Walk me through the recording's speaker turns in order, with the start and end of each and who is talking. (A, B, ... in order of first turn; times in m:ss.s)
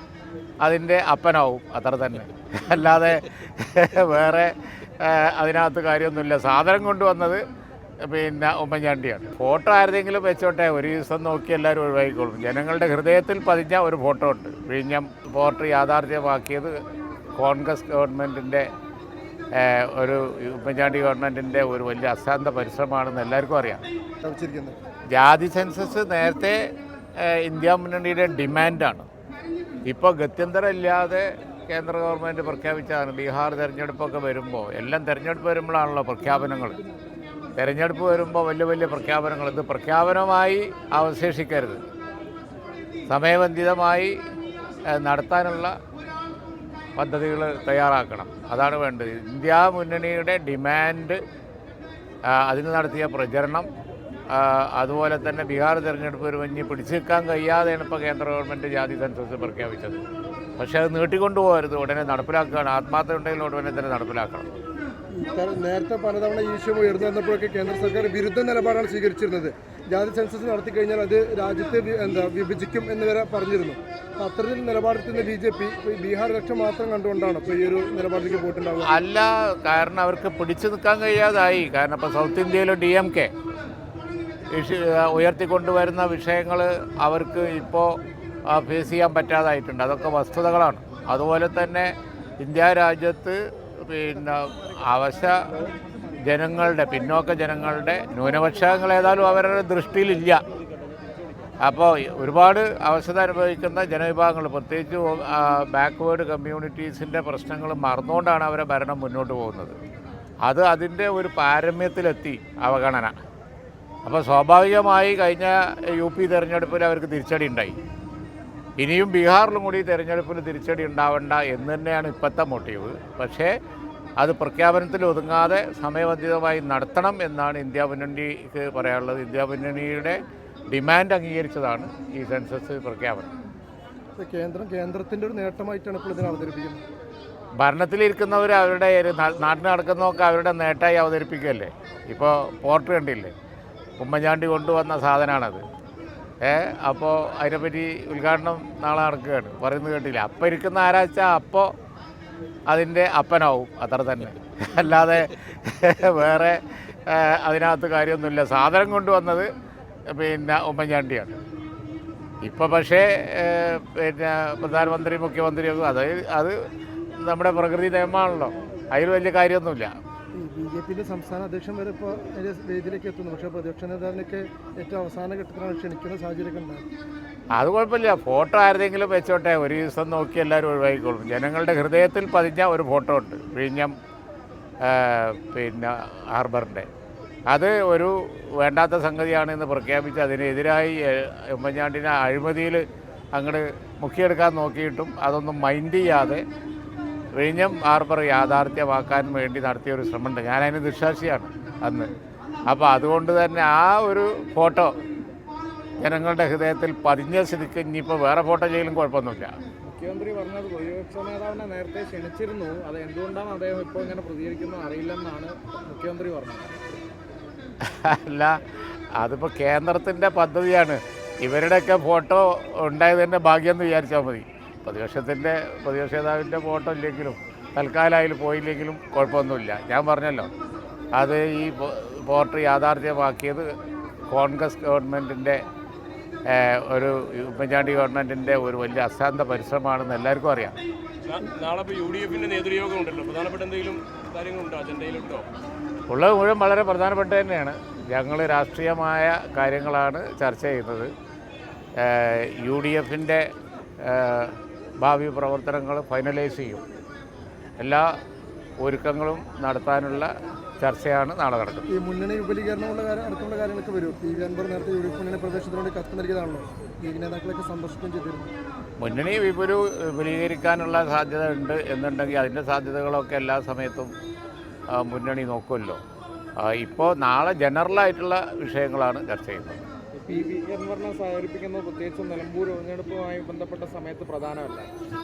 0:00.6-0:07.4 A
0:08.0-0:16.8 A
0:17.4-0:18.7 A
0:19.6-0:23.8 A
0:24.2-0:24.8 B
0:25.1-0:26.6 A
0:27.2-0:29.1 A
0:29.9-0:36.8 A
0:37.6-0:41.8 A
0:43.1-0:44.2 A
0:44.9-0:45.8 A
0:47.0-0:51.2 A
0:52.3-0:53.7 A
0:54.3-1:00.0 A
1:00.6-1:04.5 A
1:05.2-1:18.9 B
1:18.8-1:23.3 A
1:24.5-1:35.6 A
1:36.2-1:40.4 A
1:41.6-1:49.8 A
1:50.4-1:53.2 A
1:54.0-1:57.8 A
1:58.8-2:03.5 A
2:04.2-2:10.2 A
2:10.7-2:13.3 A
2:14.2-2:16.8 B
2:17.6-2:23.3 A
2:24.0-2:25.6 A
2:26.4-2:31.7 A
2:32.7-2:39.5 A
2:40.1-2:41.4 A
2:42.4-2:46.6 A
2:47.2-2:49.9 A
2:50.3-2:56.9 B
2:57.6-3:04.0 A
3:04.8-3:06.9 A
3:07.5-3:16.4 A
3:17.4-3:22.1 A
3:22.7-3:25.0 A
3:26.0-3:29.6 A
3:29.8-3:36.8 C
3:37.8-3:38.6 A
3:39.2-3:50.5 A
3:51.2-3:53.7 A
3:54.3-3:55.6 A
3:56.5-4:00.8 A
4:01.3-4:05.5 D
4:06.1-4:11.1 A
4:12.0-4:13.5 A
4:14.0-4:16.8 A
4:17.8-4:18.1 A
4:18.8-4:21.9 A
4:21.9-4:28.5 B
4:29.0-4:34.1 A
4:34.9-4:36.0 A
4:36.6-4:39.8 A
4:40.2-4:44.9 C